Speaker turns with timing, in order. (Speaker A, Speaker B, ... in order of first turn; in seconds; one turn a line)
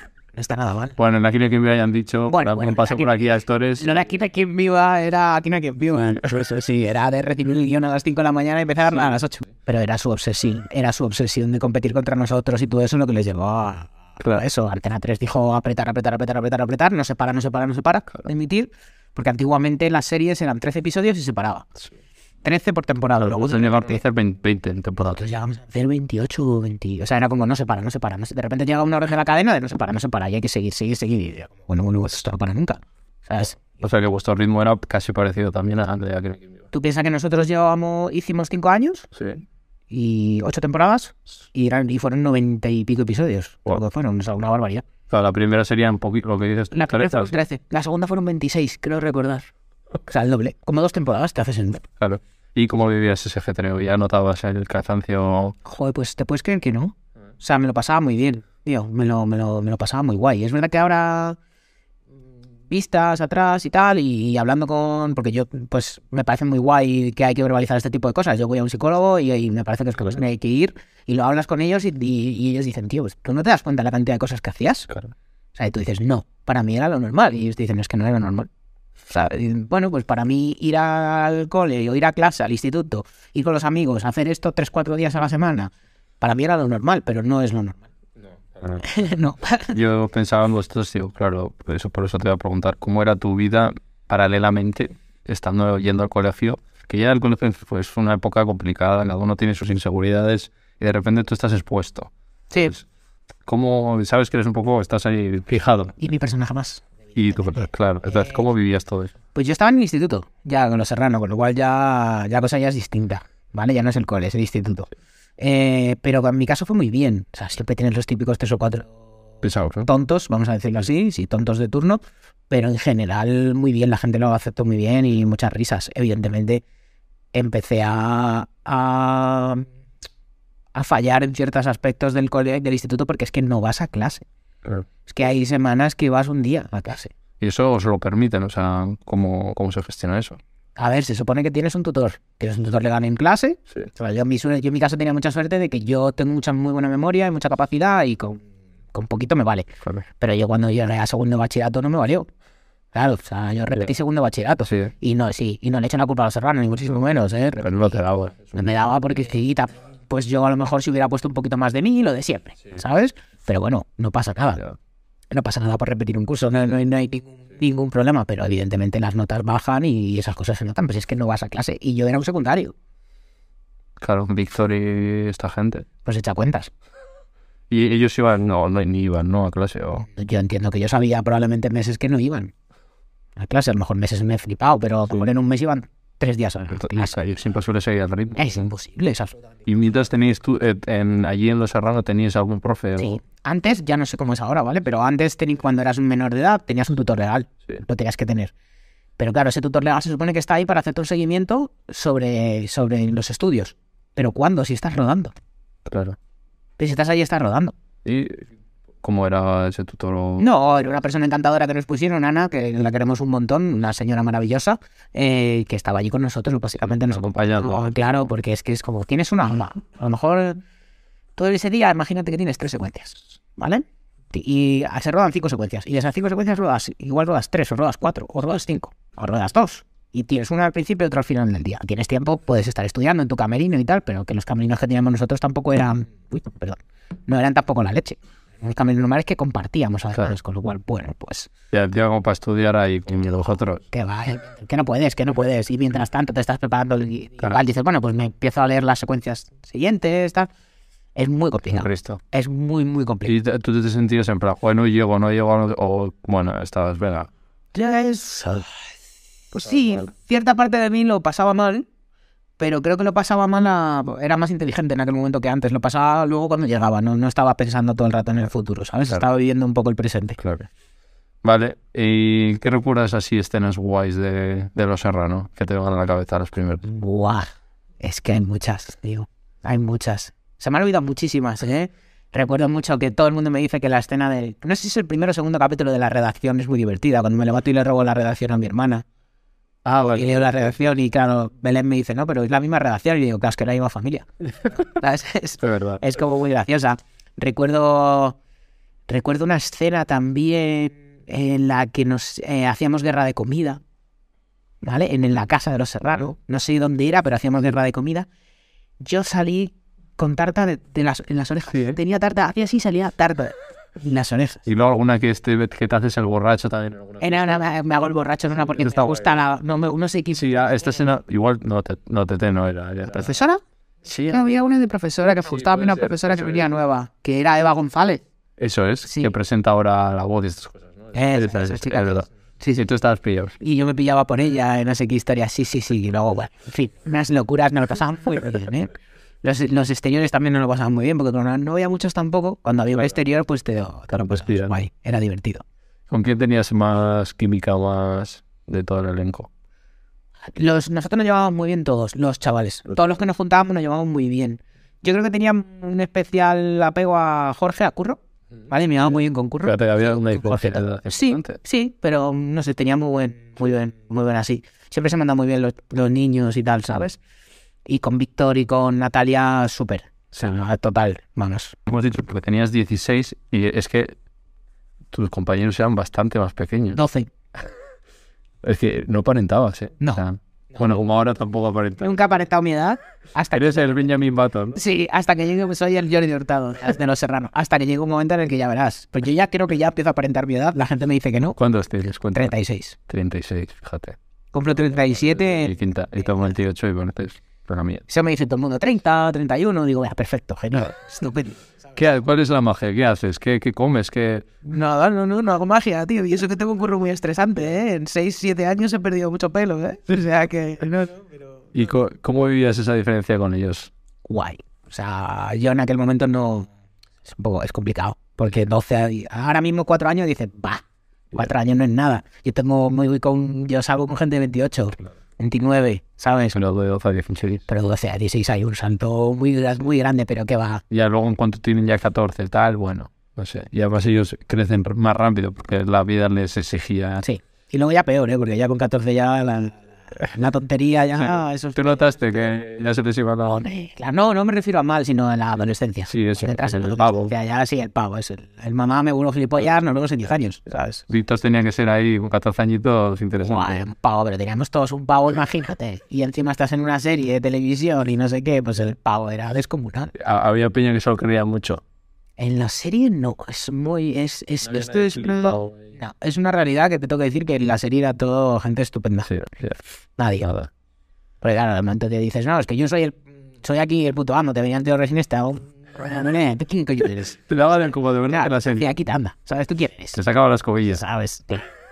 Speaker A: 0.3-1.0
Speaker B: 1.0-3.9
Speaker A: 2.3-3.2
Speaker A: 3.8-21.7
Speaker A: 22.4-24.0
Speaker B: 23.3-25.2
Speaker A: 25.1-33.6
Speaker B: 33.7-36.5
Speaker A: 36.7-39.1
Speaker B: 39.1-39.4
Speaker A: 39.9-44.8
Speaker B: 45.1-47.3
Speaker A: 46.7-49.5
Speaker A: 50.1-51.9
Speaker B: 52.0-55.6
Speaker A: 55.6-61.4
Speaker A: 62.7-74.9
Speaker A: 75.5-78.5
Speaker A: 79.1-87.8
Speaker A: 88.8-89.8
Speaker B: 89.7-102.1
Speaker B: 103.5-106.0
Speaker A: 106.0-106.8
Speaker B: 107.2-109.1
Speaker A: 109.3-118.9
Speaker B: 119.4-119.9
Speaker A: 119.9-126.6
Speaker A: 127.3-129.7
Speaker A: 130.7-134.2
Speaker A: 135.1-137.1
Speaker B: 137.4-140.4
Speaker A: 140.8-148.4
Speaker A: 148.9-149.7
Speaker A: 150.2-152.3
Speaker A: 152.9-158.0
Speaker B: 154.7-154.9
Speaker B: 157.6-158.6
Speaker A: 158.5-164.6
Speaker A: 165.3-172.7
Speaker B: 174.0-175.9
Speaker A: 176.1-176.7
Speaker B: 177.7-180.1
Speaker A: 180.1-182.5
Speaker A: 183.4-187.1
Speaker B: 186.7-188.5
Speaker A: 188.3-189.4
Speaker B: 189.7-193.2
Speaker A: 193.0-198.5
Speaker A: 199.2-205.3
Speaker B: 205.9-206.2
Speaker A: 206.8-207.7
Speaker B: 208.1-208.5
Speaker B: 209.0-210.5
Speaker A: 210.4-220.6
Speaker B: 216.8-217.8
Speaker A: 221.4-241.5
Speaker B: 241.7-243.8
Speaker A: 243.9-250.5
Speaker A: 251.2-253.3
Speaker B: 251.7-252.2
Speaker B: 253.3-257.3
Speaker A: 257.7-258.7
Speaker B: 259.5-260.1
Speaker A: 259.6-261.9
Speaker A: 262.6-270.4
Speaker B: 270.4-270.7
Speaker B: 271.4-276.8
Speaker A: 276.8-277.5
Speaker A: 278.0-289.1
Speaker B: 289.9-290.3
Speaker A: 290.1-298.4
Speaker B: 295.6-296.0
Speaker A: 299.1-303.8
Speaker A: 304.8-308.3
Speaker A: 309.0-314.6
Speaker B: 314.7-317.5
Speaker A: 317.2-320.5
Speaker B: 318.8-319.1
Speaker B: 320.3-323.4
Speaker A: 323.1-323.6
Speaker B: 324.1-324.4
Speaker A: 324.3-328.2
Speaker B: 325.7-326.6
Speaker B: 328.6-333.6
Speaker A: 329.1-329.3
Speaker A: 331.1-332.8
Speaker A: 333.6-345.6
Speaker B: 344.1-344.8
Speaker B: 346.1-349.5
Speaker A: 350.5-359.8
Speaker B: 359.6-361.6
Speaker A: 360.3-367.2
Speaker A: 367.9-371.8
Speaker B: 371.9-374.1
Speaker B: 375.1-377.0
Speaker A: 376.9-377.3
Speaker B: 378.6-382.2
Speaker A: 382.0-383.9
Speaker B: 383.5-384.8
Speaker A: 384.8-391.6
Speaker B: 391.6-392.5
Speaker A: 392.3-393.0
Speaker B: 393.1-394.2
Speaker A: 394.5-395.8
Speaker B: 395.5-398.0
Speaker A: 398.1-401.6
Speaker B: 401.9-404.5
Speaker A: 404.6-411.3
Speaker B: 411.7-413.9
Speaker A: 414.2-416.7
Speaker A: 417.2-426.6
Speaker B: 426.5-427.6
Speaker A: 427.7-430.8
Speaker B: 430.9-437.2
Speaker A: 437.2-442.2
Speaker B: 441.8-443.6
Speaker A: 443.6-451.1
Speaker B: 446.1-447.3
Speaker B: 451.1-453.8
Speaker A: 453.4-460.1
Speaker B: 460.1-461.8
Speaker A: 462.4-469.3
Speaker B: 464.7-465.8
Speaker B: 469.3-469.8
Speaker A: 470.2-470.6
Speaker A: 471.4-477.4
Speaker B: 477.5-478.9
Speaker A: 478.3-480.2
Speaker B: 480.1-481.0
Speaker A: 480.9-481.6